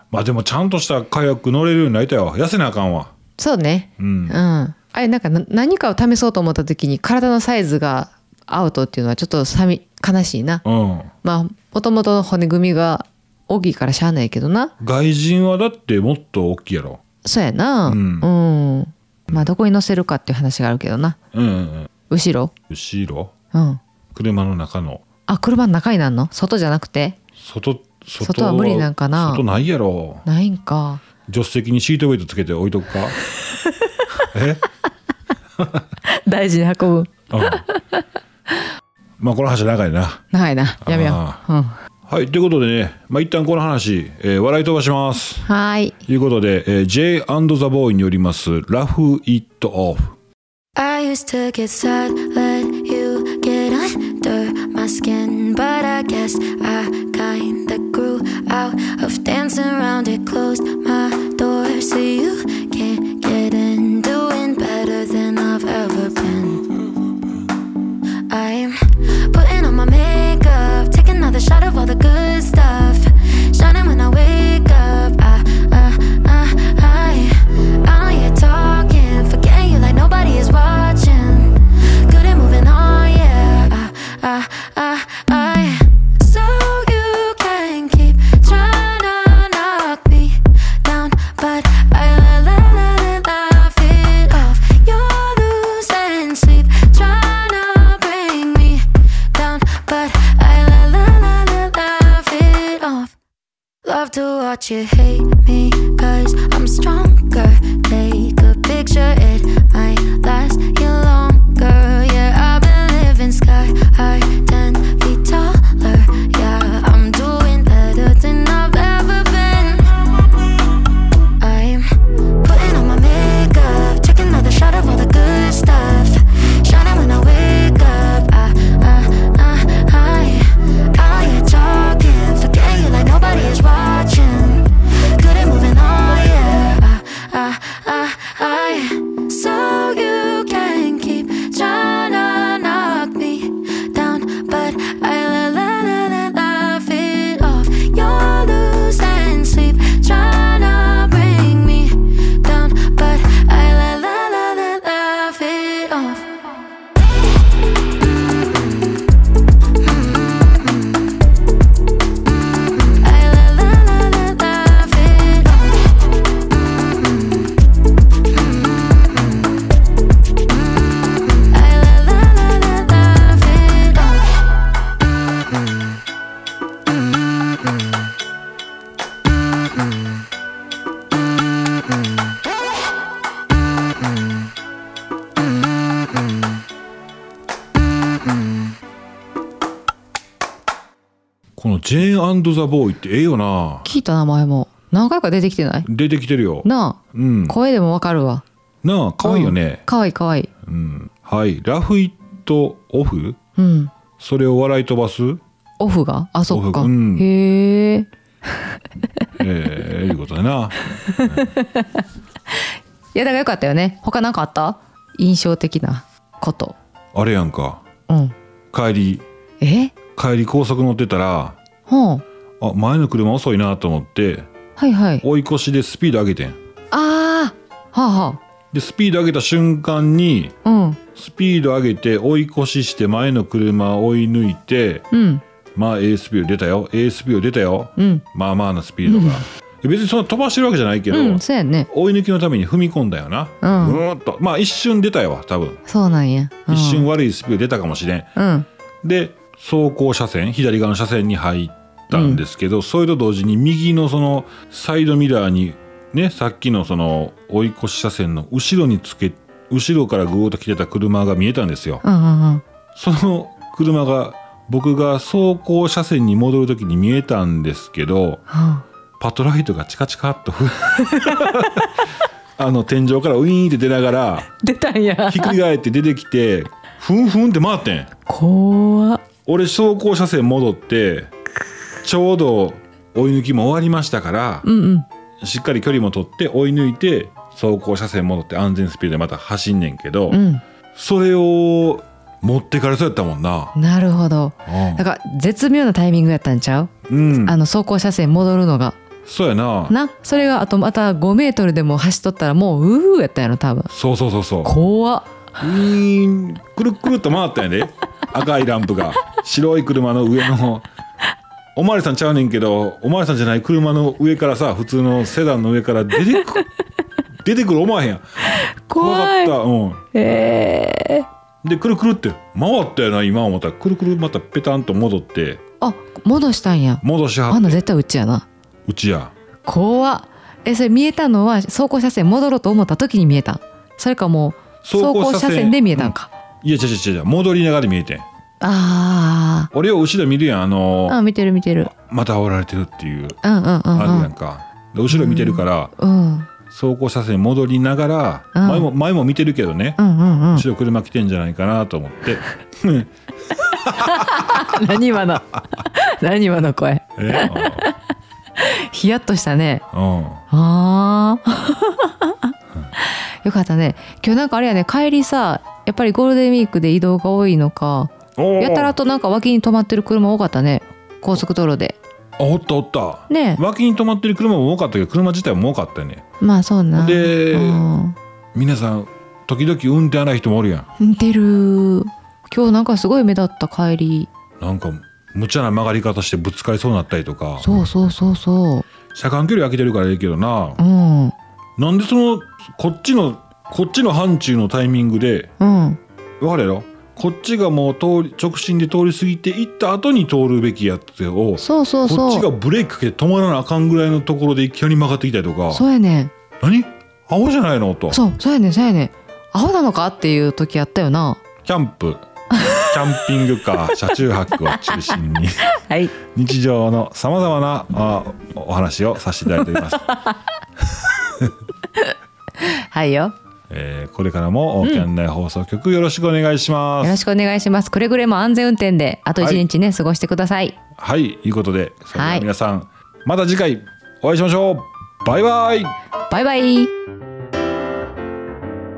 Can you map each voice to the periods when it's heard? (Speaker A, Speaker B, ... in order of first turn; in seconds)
Speaker A: 0.1-3.1, 4.0-4.4, 10.6-11.1, 14.8-17.0, 17.9-18.3, 21.3-21.9, 22.7-23.3, 24.1-25.0, 27.4-30.2, 31.2-33.2, 34.2-34.6, 35.6-35.9, 37.3-37.6, 39.2-40.2, 40.8-41.4, 42.1-45.5, 46.0-50.1, 191.6-193.9, 195.8-197.6, 198.8-199.8, 200.7-203.4, 204.2-205.4, 206.5-207.3, 209.4-211.5, 217.1-217.8, 218.7-219.2, 220.1-221.6, 222.6-224.5, 225.2-226.6, 228.7-230.5, 231.1-235.1, 235.8-245.8, 246.7-248.3, 249.0-262.0, 262.9-268.4, 269.2-272.0, 272.6-274.5, 275.3-278.1, 279.4-281.3, 282.0-284.7, 285.4-290.4, 290.9-293.7, 294.6-295.0, 297.1-297.6, 299.2-299.9, 303.9-304.8, 305.6-310.9, 311.8-316.6, 317.4-320.1, 321.6-325.6, 327.0-327.8, 328.9-329.3, 334.8-338.2, 339.7-341.2, 341.9-343.4, 343.9-345.9, 346.7-350.0, 350.5-354.7, 357.2-357.9, 359.9-360.4, 368.4-368.9, 372.4-376.2, 376.9-377.9, 378.5-380.9, 384.6-387.7, 389.1-390.8, 391.8-395.5, 396.4-405.9, 406.6-408.2, 411.6-415.7, 416.2-420.2, 423.7-427.2, 431.0-435.9
Speaker B: 3.4-10.6, 11.2-14.7, 17.2-21.2, 22.1-22.5, 23.5-23.8, 25.3-27.2, 28.2-29.4, 30.2-31.0, 33.4-34.0, 36.0-38.0, 40.3-41.8, 45.5-46.0, 193.8-195.9, 196.6-198.4, 199.2-200.5, 203.6-203.9, 205.8-208.1, 211.1-216.8, 218.1-218.3, 219.6-219.9, 221.9-222.2, 224.8-225.2, 226.9-228.4, 230.6-231.0, 235.1-235.4, 238.0-238.2, 239.0-239.4, 241.1-241.9, 243.6-244.0, 245.9-247.1, 248.4-248.7, 252.1-252.4, 262.0-262.6, 268.5-268.9, 271.1-271.6, 274.6-275.6, 278.2-279.3, 284.6-285.1, 290.3-290.6, 293.7-299.0, 299.9-303.9, 304.6-305.3, 318.5-319.6, 320.1-321.3, 325.8-328.5, 329.6-336.3, 338.6-339.7, 341.1-341.9, 343.4-344.3, 345.1-346.5, 348.5-348.9, 350.0-350.6, 353.9-358.0, 358.6-359.9, 360.5-372.0, 373.3-373.6, 376.4-378.1, 381.0-384.3, 387.6-388.9, 390.8-391.4, 395.6-396.0, 401.6-402.5, 405.7-406.3, 408.1-411.4, 412.5-413.1, 414.8-415.1, 415.7-416.1, 419.6-420.3, 421.9-423.4, 427.0-430.8, 432.1-432.5, 436.3-436.9
Speaker C: 50.7-66.8, 68.3-103.1, 103.8-119.9, 121.4-156.3, 159.8-161.0, 162.3-165.9, 166.6-167.5, 168.3-169.5, 171.3-174.4